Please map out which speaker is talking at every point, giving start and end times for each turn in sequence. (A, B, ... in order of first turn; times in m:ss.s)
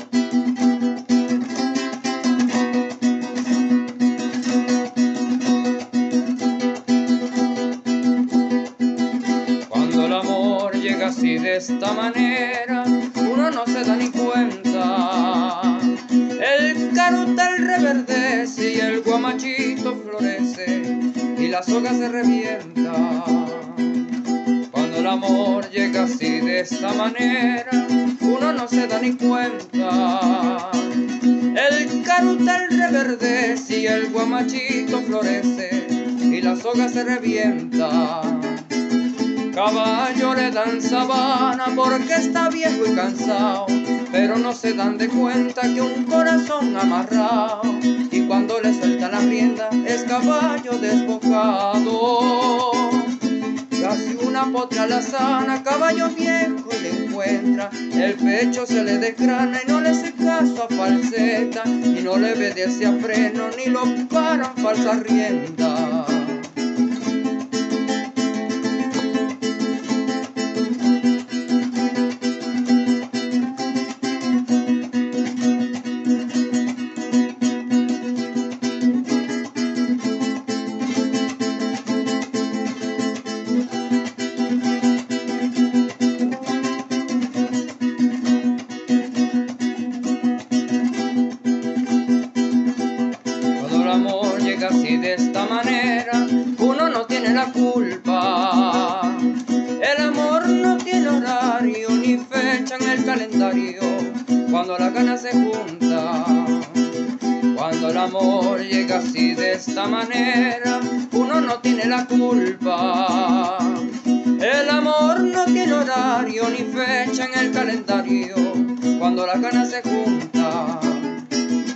0:09.7-0:38.8 A
0:39.5-1:06.5 A
1:33.6-2:01.3 A